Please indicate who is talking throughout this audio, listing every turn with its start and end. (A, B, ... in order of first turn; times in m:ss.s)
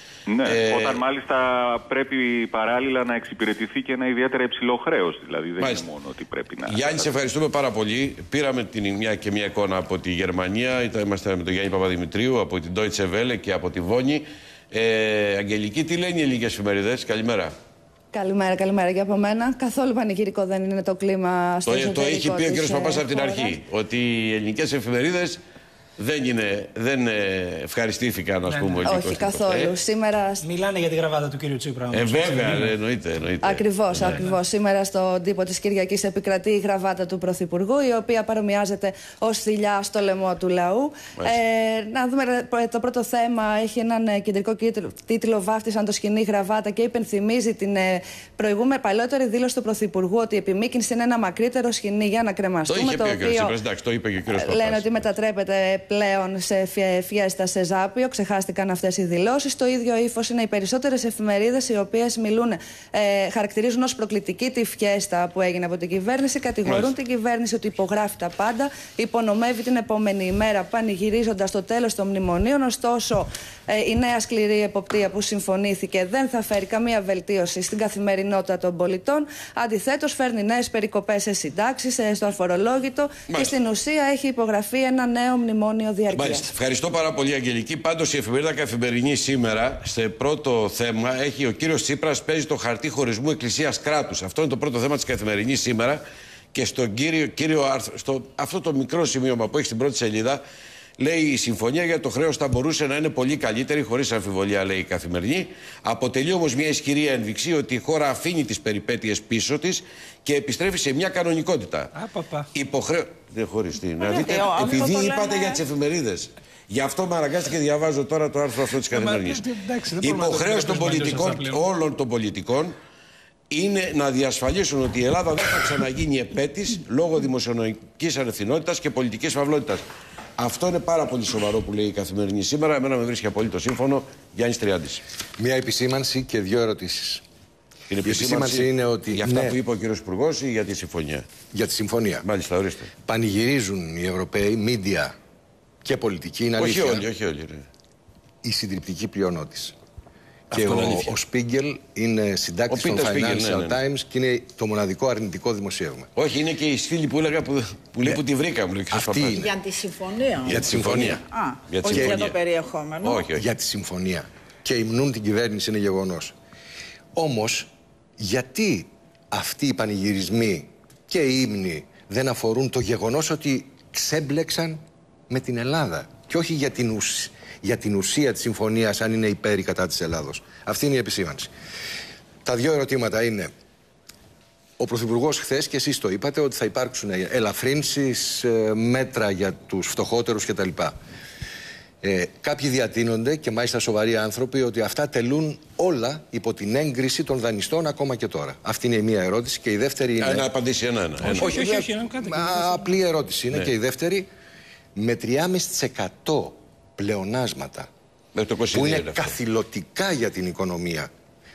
0:00.3-0:07.1 A
0:00.4-0:01.0 B
0:05.6-0:05.8 B
0:06.7-0:17.5 B
0:18.1-0:23.6 C
0:21.6-0:25.4 B
0:26.0-0:29.7 B
0:28.5-0:28.9 D
0:28.8-0:30.4 C
0:30.4-0:32.7 D
0:31.9-0:34.2 B
0:33.4-0:53.6 C
0:52.7-0:55.1 B
0:54.3-1:26.5 C
1:06.6-1:06.9 B
1:23.3-1:23.6 B
1:26.1-1:36.0 B
1:36.5-1:40.4 B
1:41.0-1:51.9 B
1:51.9-1:52.5 D
1:52.5-1:59.4 B
1:54.0-1:55.6 E
1:58.9-2:01.6 D
2:00.0-2:02.8 B
2:03.5-2:09.8 B
2:10.4-2:15.0 B
2:15.4-2:17.2 F
2:17.9-2:21.3 B
2:18.0-2:19.6 F
2:21.5-2:22.2 F
2:22.2-2:22.9 B
2:23.1-2:25.1 F
2:25.8-2:27.1 F
2:26.6-2:27.6 B
2:28.4-2:29.7 F
2:30.5-2:36.1 F
2:30.5-2:31.2 B
2:32.7-2:33.8 B
2:36.1-2:39.4 B
2:38.9-2:39.5 F
2:39.4-2:40.7 E
2:40.4-2:41.2 F
2:40.6-2:42.4 B
2:41.2-2:43.3 E
2:41.9-2:42.2 F
2:43.0-2:43.4 B
2:43.3-2:46.3 F
2:47.2-3:01.5 F
3:02.4-3:03.5 F
3:04.8-3:10.9 F
3:12.0-3:20.5 F
3:20.2-3:21.6 B
3:21.2-3:23.0 D
3:21.4-3:24.3 F
3:25.0-3:27.9 F
3:28.4-3:29.4 B
3:28.7-3:31.1 F